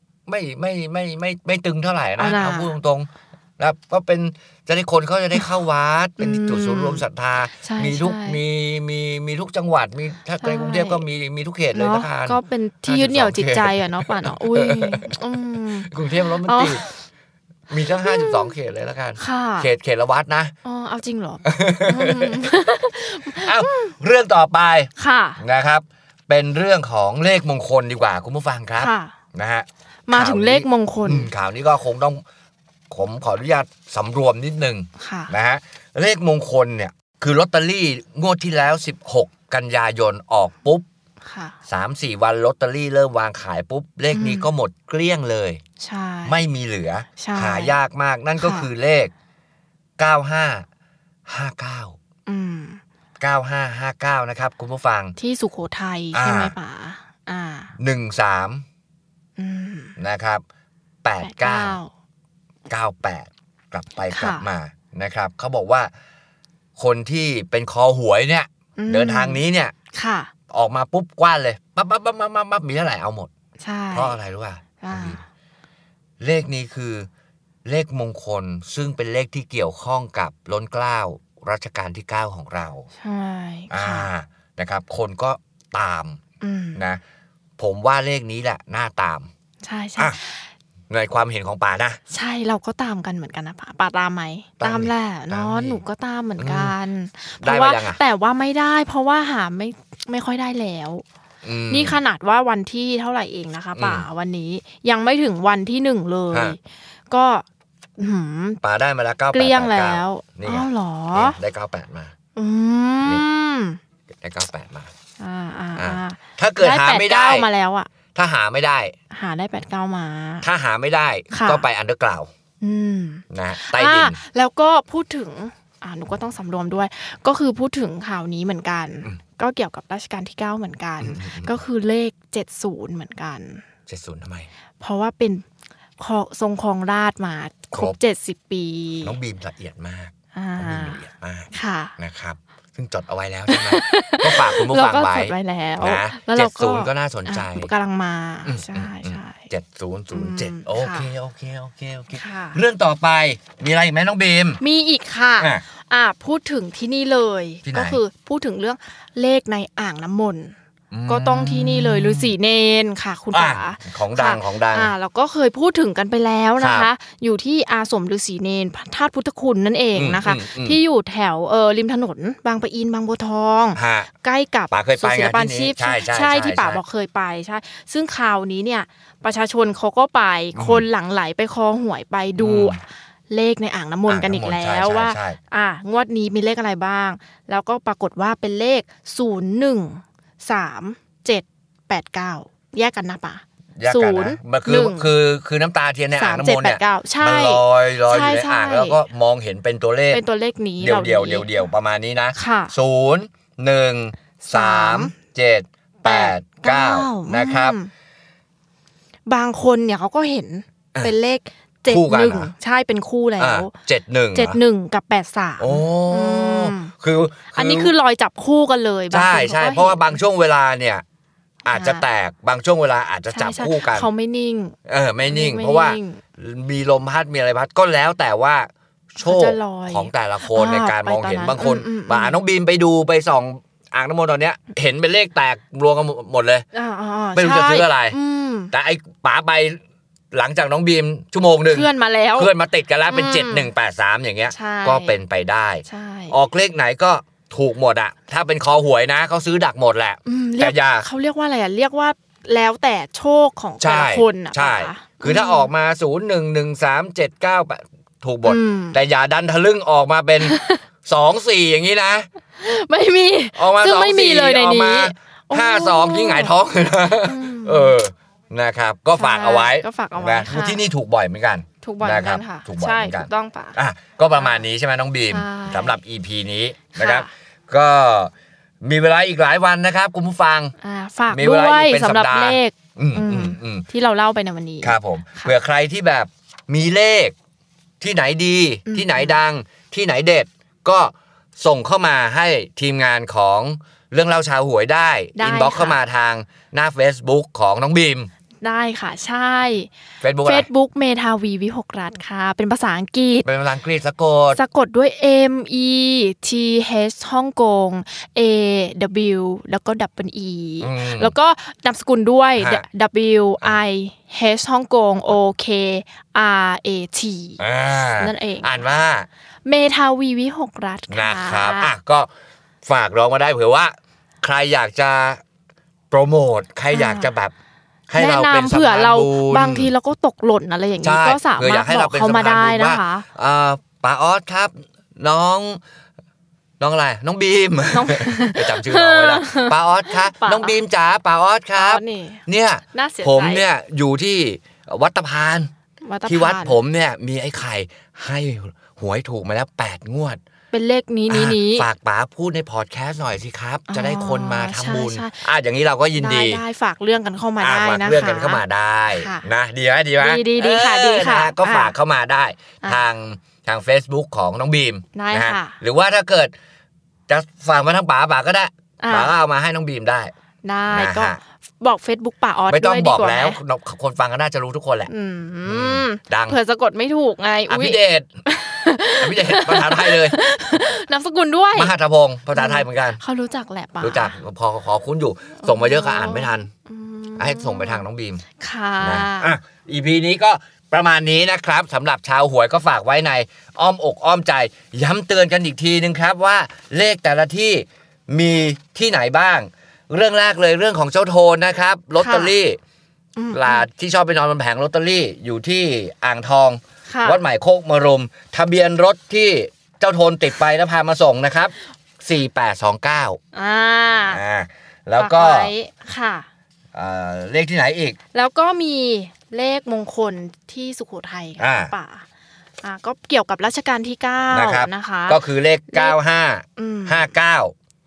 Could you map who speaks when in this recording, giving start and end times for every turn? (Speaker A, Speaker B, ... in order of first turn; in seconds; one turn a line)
Speaker A: 0.3-15.2
Speaker B: 2.2-2.7
Speaker B: 6.2-7.0
Speaker B: 7.5-8.4
Speaker B: 10.4-11.0
Speaker B: 11.7-17.0
Speaker A: 15.8-16.8
Speaker A: 17.7-20.5
Speaker B: 17.9-18.5
Speaker B: 19.2-19.7
Speaker B: 20.6-23.9
Speaker A: 21.4-22.5
Speaker A: 23.3-32.2
Speaker B: 24.9-25.4
Speaker B: 28.8-29.1
Speaker B: 30.1-31.3
Speaker A: 32.9-40.9
Speaker B: 35.0-35.3
Speaker B: 41.2-41.6
Speaker A: 41.7-45.6
Speaker B: 44.1-44.5
Speaker B: 45.8-46.4
Speaker A: 46.2-49.1
Speaker B: 47.2-47.8
Speaker B: 48.4-48.7
Speaker A: 50.0-50.6
Speaker A: 51.3-52.0
Speaker B: 52.2-52.8
Speaker A: 53.2-55.1
Speaker B: 55.2-57.7
Speaker A: 56.1-56.5
Speaker A: 57.8-58.6
Speaker B: 59.4-60.0
Speaker A: 60.0-60.4
Speaker A: 61.0-61.8
Speaker B: 61.2-61.9
Speaker A: 62.7-65.9
Speaker B: 64.1-64.4
Speaker A: 66.8-69.7
Speaker B: 68.8-70.3
Speaker A: 70.5-73.3
Speaker B: 73.6-74.2
Speaker A: 73.9-75.2
Speaker B: 74.8-75.2
Speaker A: 76.2-77.1
Speaker A: 77.6-82.9
Speaker B: 83.0-84.1
Speaker A: 83.7-86.2
Speaker B: 86.4-86.8
Speaker A: 86.8-87.0
Speaker A: 87.6-89.3
Speaker B: 89.6-90.5
Speaker A: 90.9-92.0
Speaker B: 92.1-101.0
Speaker A: 94.6-95.8
Speaker A: 96.4-96.7
Speaker A: 97.4-98.0
Speaker A: 101.4-102.0
Speaker B: 101.7-106.6
Speaker A: 103.8-104.1
Speaker A: 106.3-106.6
Speaker B: 107.1-107.5
Speaker B: 108.0-108.6
Speaker A: 108.6-112.1
Speaker B: 109.3-111.4
Speaker B: 112.3-113.8
Speaker A: 114.2-114.9
Speaker B: 115.2-117.9
Speaker A: 115.8-117.5
Speaker A: 118.1-118.9
Speaker B: 119.1-120.5
Speaker A: 120.4-122.3
Speaker B: 121.3-121.6
Speaker B: 122.6-133.6
Speaker A: 123.3-124.2
Speaker A: 131.0-131.6
Speaker A: 133.9-134.5
Speaker B: 134.8-135.4
Speaker B: 136.0-139.2
Speaker A: 139.0-147.7
Speaker B: 140.3-141.0
Speaker B: 141.5-141.9
Speaker B: 143.5-149.5
Speaker A: 148.4-154.6
Speaker B: 150.1-151.1
Speaker B: 152.1-152.6
Speaker B: 154.6-160.5
Speaker A: 155.4-155.6
Speaker A: 157.6-158.0
Speaker A: 160.9-162.3
Speaker B: 161.1-195.1
Speaker A: 163.3-164.9
Speaker A: 166.6-166.9
Speaker A: 169.9-170.8
Speaker A: 173.8-174.1
Speaker A: 174.7-176.8
Speaker A: 180.5-180.9
Speaker A: 182.4-182.8
Speaker A: 184.1-185.4
Speaker A: 193.8-200.2
Speaker B: 196.1-199.0
Speaker B: 200.1-201.5
Speaker A: 200.8-207.8
Speaker B: 202.3-202.7
Speaker B: 204.4-205.1
Speaker B: 206.0-207.9
Speaker B: 209.3-213.7
Speaker A: 211.9-212.5
Speaker A: 213.4-214.6
Speaker B: 214.3-216.9
Speaker A: 215.6-217.9
Speaker B: 217.5-220.2
Speaker A: 219.1-221.0
Speaker A: 221.6-224.1
Speaker B: 221.7-222.0
Speaker B: 223.3-226.2
Speaker A: 224.9-236.6
Speaker B: 229.2-232.4
Speaker B: 236.7-238.7
Speaker A: 237.3-238.2
Speaker A: 238.7-239.8
Speaker A: 240.3-251.1
Speaker B: 241.7-242.5
Speaker B: 243.1-243.7
Speaker B: 244.5-245.2
Speaker B: 245.8-246.4
Speaker B: 250.2-255.7
Speaker A: 253.8-262.3
Speaker B: 258.4-259.0
Speaker B: 260.4-260.8
Speaker B: 262.6-266.5
Speaker A: 263.6-278.3
Speaker B: 267.2-268.0
Speaker B: 269.1-270.8
Speaker B: 271.8-273.8
Speaker B: 274.4-274.6
Speaker B: 275.3-276.0
Speaker B: 276.9-277.3
Speaker A: 278.8-280.8
Speaker B: 280.8-285.5
Speaker A: 281.3-283.9
Speaker A: 284.8-287.3
Speaker A: 288.0-298.3
Speaker B: 288.9-289.4
Speaker B: 295.4-296.0
Speaker B: 298.6-299.9
Speaker A: 300.2-300.7
Speaker B: 300.4-303.5
Speaker A: 303.4-304.6
Speaker B: 304.5-319.0
Speaker A: 310.8-311.3
Speaker A: 312.6-312.9
Speaker A: 317.6-319.3
Speaker B: 319.6-321.9
Speaker A: 321.1-322.3
Speaker A: 322.8-325.4
Speaker A: 326.1-327.5
Speaker B: 326.9-327.3
Speaker A: 328.1-329.9
Speaker B: 328.1-333.2
Speaker A: 331.0-335.8
Speaker A: 336.8-345.7
Speaker B: 337.9-340.8
Speaker B: 341.8-342.4
Speaker B: 342.9-343.6
Speaker B: 346.0-346.8
Speaker A: 346.2-350.4
Speaker B: 350.7-351.9
Speaker A: 351.3-356.6
Speaker B: 353.9-355.4
Speaker B: 356.1-359.5
Speaker A: 357.6-366.5
Speaker B: 360.2-361.9
Speaker B: 362.8-363.1
Speaker B: 365.1-365.8
Speaker A: 367.3-370.3
Speaker B: 369.0-369.3
Speaker B: 370.6-373.6
Speaker A: 370.9-371.4
Speaker A: 372.7-375.1
Speaker B: 375.1-381.9
Speaker A: 375.6-376.6
Speaker A: 377.7-378.2
Speaker A: 379.2-380.4
Speaker A: 381.8-383.2
Speaker B: 382.5-384.4
Speaker A: 384.0-386.7
Speaker B: 385.6-388.0
Speaker A: 387.4-388.4
Speaker B: 388.6-389.5
Speaker A: 389.0-402.8
Speaker B: 402.2-402.5
Speaker B: 403.4-403.9
Speaker A: 403.5-413.4
Speaker B: 407.1-407.4
Speaker B: 413.5-414.4
Speaker A: 414.3-415.7
Speaker B: 415.1-416.5
Speaker A: 416.9-418.2
Speaker B: 418.3-422.2
Speaker A: 421.6-421.9
Speaker B: 422.8-426.2
Speaker A: 424.5-427.7
Speaker B: 426.8-427.4